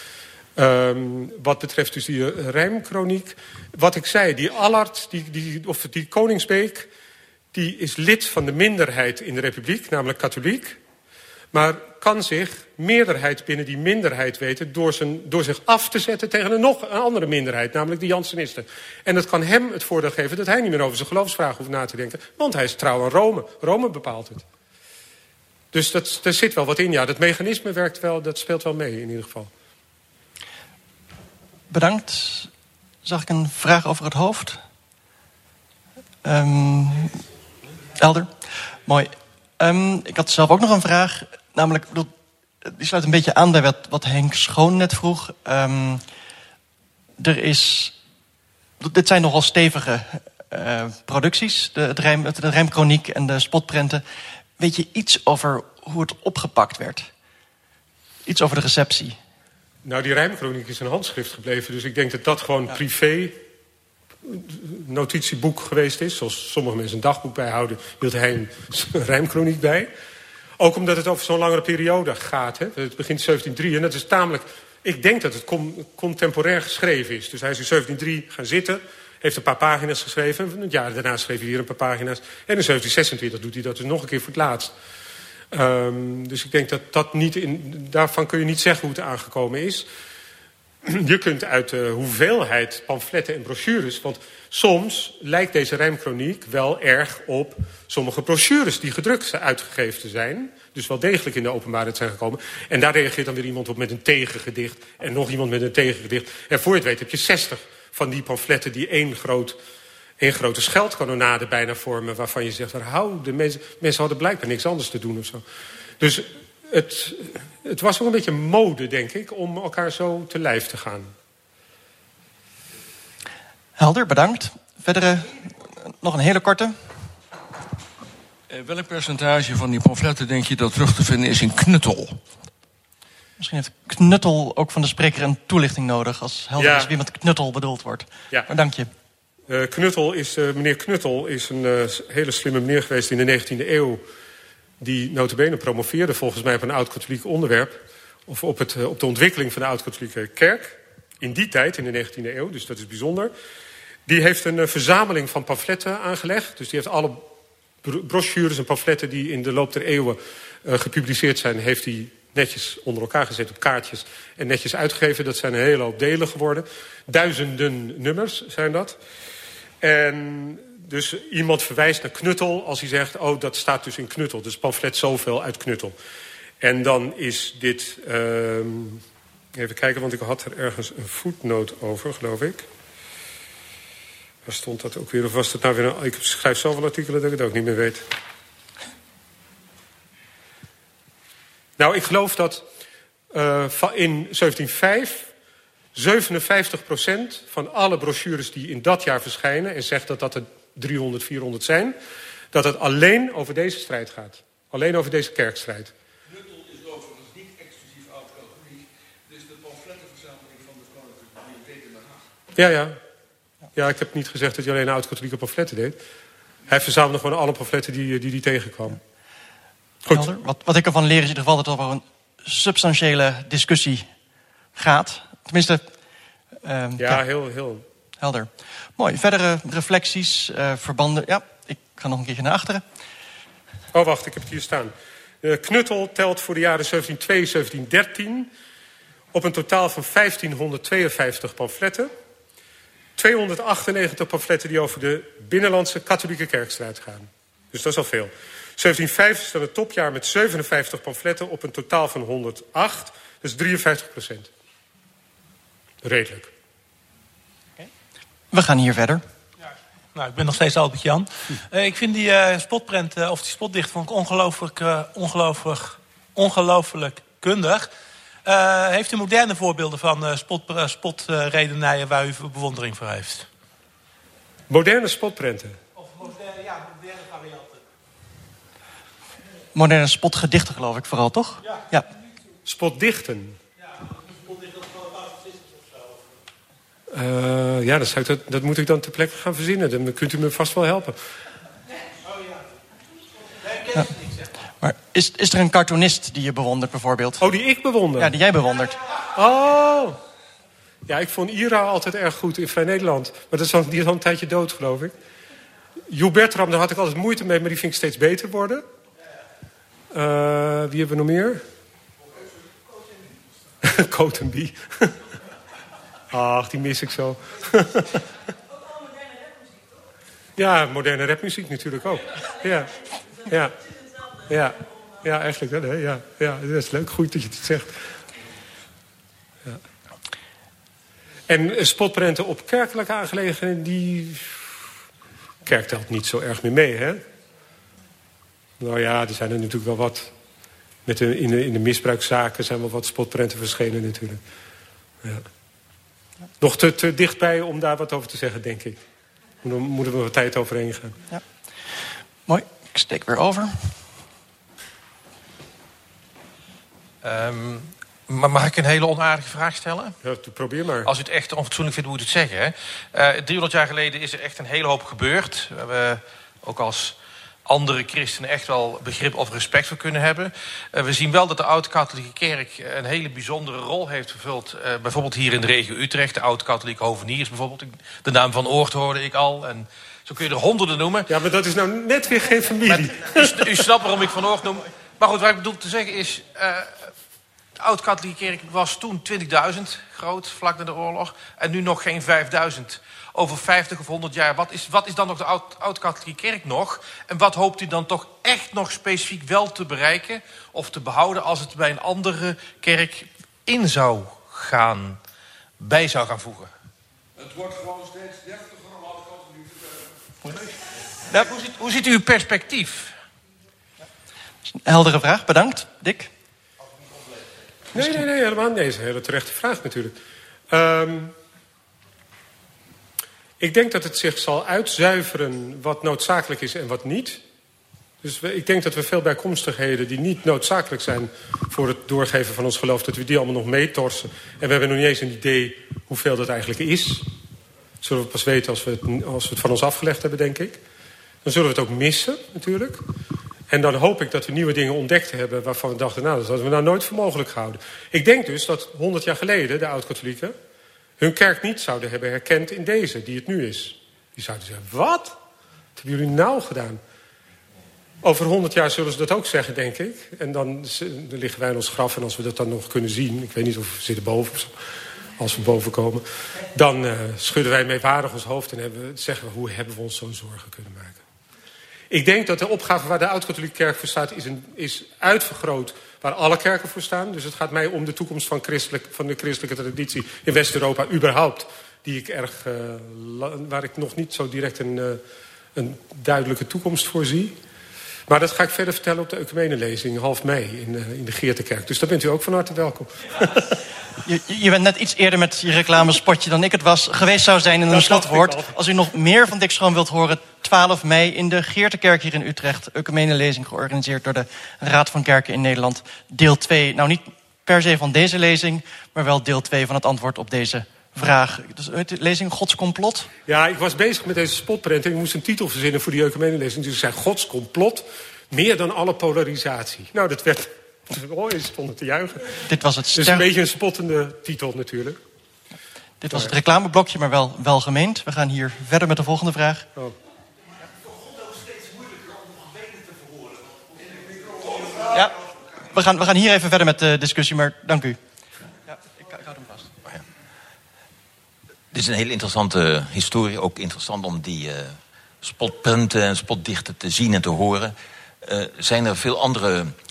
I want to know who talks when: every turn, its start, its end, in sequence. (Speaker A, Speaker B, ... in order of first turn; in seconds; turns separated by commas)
Speaker A: 0.6-6.9, Speaker A: 7.5-10.8, Speaker A: 11.5-24.4, Speaker A: 25.7-29.5, Speaker B: 31.7-32.5, Speaker B: 33.0-34.6, Speaker B: 36.2-37.2, Speaker B: 38.0-38.3, Speaker B: 38.9-42.1, Speaker B: 42.6-46.0, Speaker B: 47.2-48.0, Speaker B: 48.8-54.0, Speaker B: 54.6-57.1, Speaker B: 58.3-59.2, Speaker A: 59.8-63.4, Speaker A: 64.2-69.9, Speaker A: 70.6-84.7, Speaker A: 85.5-89.9, Speaker A: 90.8-109.6, Speaker A: 110.2-115.4, Speaker A: 116.0-121.1, Speaker B: 123.8-126.8, Speaker C: 128.5-132.2, Speaker B: 133.4-138.9, Speaker A: 136.6-136.9, Speaker A: 139.5-144.0, Speaker A: 144.8-153.3, Speaker A: 154.1-157.3, Speaker A: 157.8-169.0, Speaker A: 169.8-175.9, Speaker A: 176.6-179.0, Speaker A: 179.6-182.7, Speaker A: 184.4-188.1, Speaker A: 191.8-192.6, Speaker A: 193.3-195.3, Speaker A: 195.9-201.9, Speaker A: 202.5-205.9, Speaker A: 212.6-213.0, Speaker A: 213.7-216.0, Speaker A: 216.7-219.0, Speaker B: 220.1-224.1, Speaker B: 224.8-225.9, Speaker B: 226.6-227.2, Speaker A: 227.0-227.8, Speaker B: 228.2-232.8, Speaker A: 233.9-238.5, Speaker A: 239.3-242.1, Speaker A: 243.2-254.5, Speaker A: 256.0-256.5, Speaker B: 258.5-259.2, Speaker D: 260.1-267.9, Speaker D: 268.4-273.5, Speaker A: 274.7-275.8, Speaker D: 276.0-277.8, Speaker B: 279.7-282.1, Speaker A: 282.6-283.6, Speaker D: 284.0-286.1, Speaker A: 287.1-291.2, Speaker D: 293.6-294.5, Speaker B: 294.8-297.5, Speaker A: 297.4-298.4, Speaker B: 298.2-299.0, Speaker A: 299.3-300.2, Speaker A: 301.1-305.1, Speaker A: 306.1-308.9, Speaker A: 310.1-311.6, Speaker A: 313.8-315.2, Speaker A: 316.3-318.3, Speaker A: 320.6-323.8, Speaker A: 324.4-328.1, Speaker A: 331.5-334.8, Speaker A: 335.6-337.2, Speaker A: 338.8-340.3, Speaker A: 341.1-344.4, Speaker A: 346.6-349.0, Speaker A: 349.6-351.2, Speaker B: 352.5-354.0, Speaker E: 357.2-360.1, Speaker A: 360.2-361.1, Speaker E: 361.1-381.3, Speaker A: 381.3-383.8, Speaker E: 382.9-387.1, Speaker E: 387.8-405.2, Speaker E: 405.8-406.7, Speaker C: 407.6-408.4, Speaker E: 411.3-413.2, Speaker B: 414.7-416.3, Speaker A: 417.9-420.1, Speaker A: 420.7-421.4, Speaker A: 423.6-427.4, Speaker A: 428.2-437.3, Speaker A: 438.0-440.8, Speaker A: 441.4-443.0, Speaker A: 443.7-450.6, Speaker A: 451.2-455.4, Speaker A: 455.9-457.0, Speaker A: 458.2-471.2, Speaker A: 472.1-485.2, Speaker A: 485.7-487.6, Speaker A: 488.3-493.8, Speaker B: 494.2-513.3, Speaker A: 497.9-498.8, Speaker A: 513.5-522.6, Speaker B: 522.7-523.5, Speaker A: 523.1-525.2, Speaker B: 526.2-529.9, Speaker B: 535.0-535.4, Speaker B: 535.9-538.2, Speaker B: 538.9-539.8, Speaker F: 541.9-550.0